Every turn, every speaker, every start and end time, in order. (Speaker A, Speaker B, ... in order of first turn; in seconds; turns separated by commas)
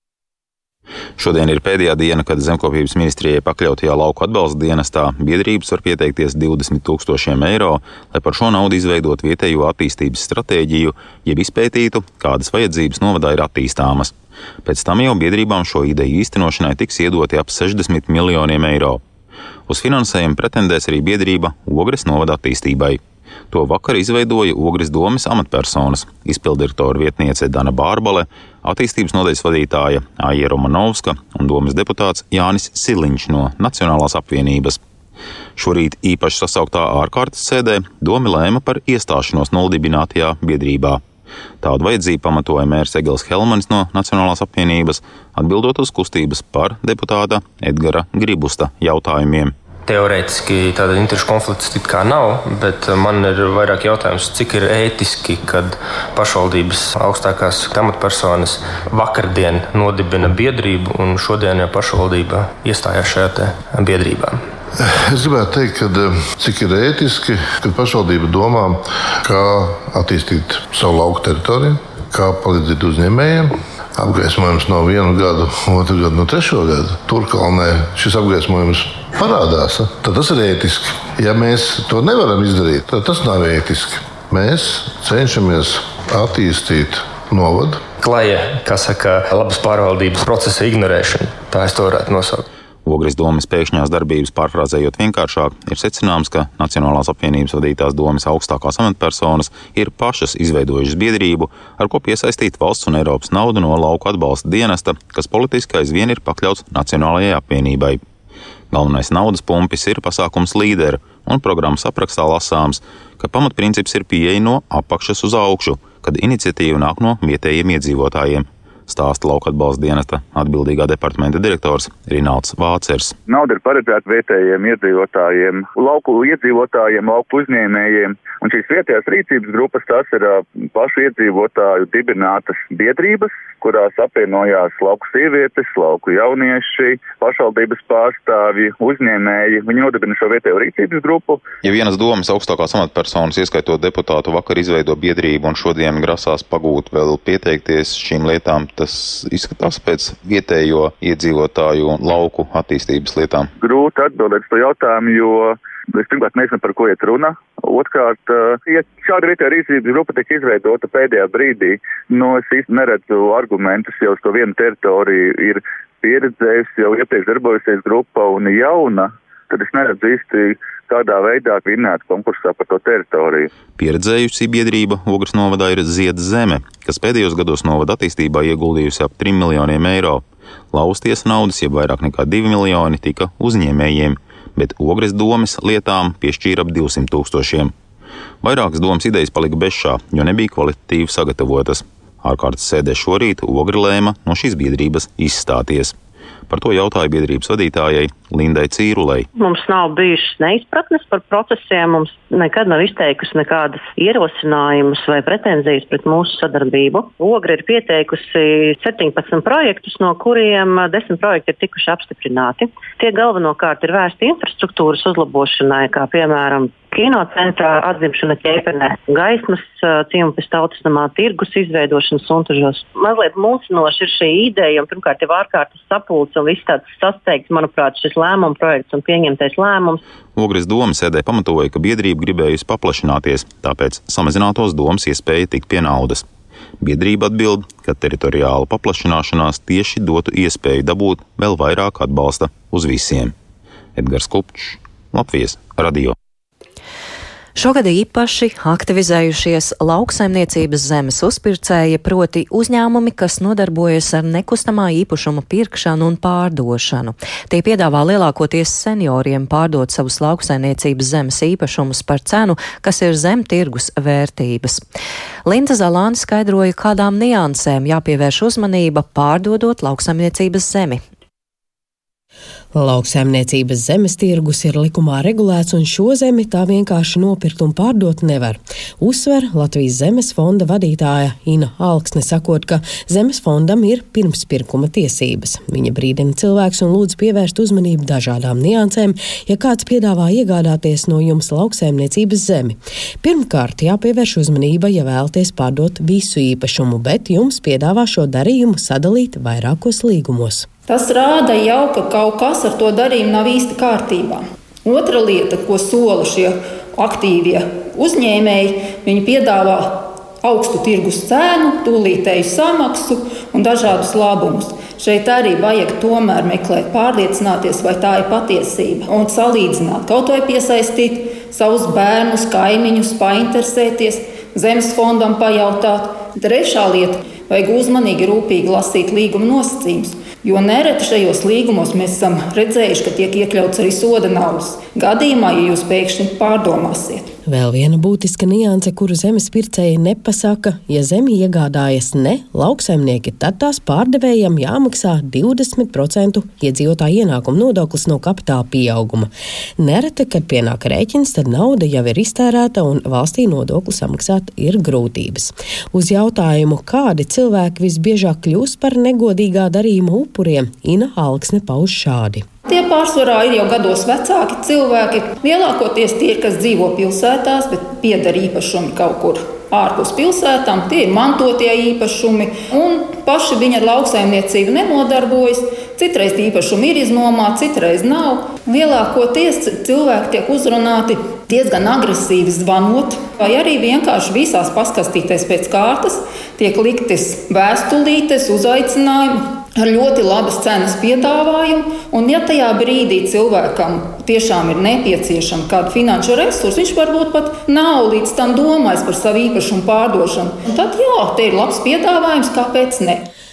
Speaker A: 1.2-14.1, Speaker A: 14.7-19.0, Speaker A: 19.7-34.8, Speaker A: 35.6-41.0, Speaker A: 41.6-49.5, Speaker B: 49.9-64.4, Speaker C: 64.8-87.8, Speaker B: 88.0-92.5, Speaker A: 92.8-108.0, Speaker A: 108.7-123.2, Speaker D: 123.3-141.5, Speaker A: 141.6-153.5, Speaker D: 153.6-173.5, Speaker A: 173.8-187.7, Speaker A: 188.4-196.0, Speaker A: 196.5-199.3, Speaker E: 199.4-230.0, Speaker A: 230.4-236.2, Speaker A: 236.8-243.3, Speaker A: 244.0-246.2, Speaker F: 247.6-264.8, Speaker F: 265.5-271.0, Speaker G: 272.7-300.7, Speaker H: 300.9-337.3, Speaker G: 337.5-362.4, Speaker H: 362.7-403.3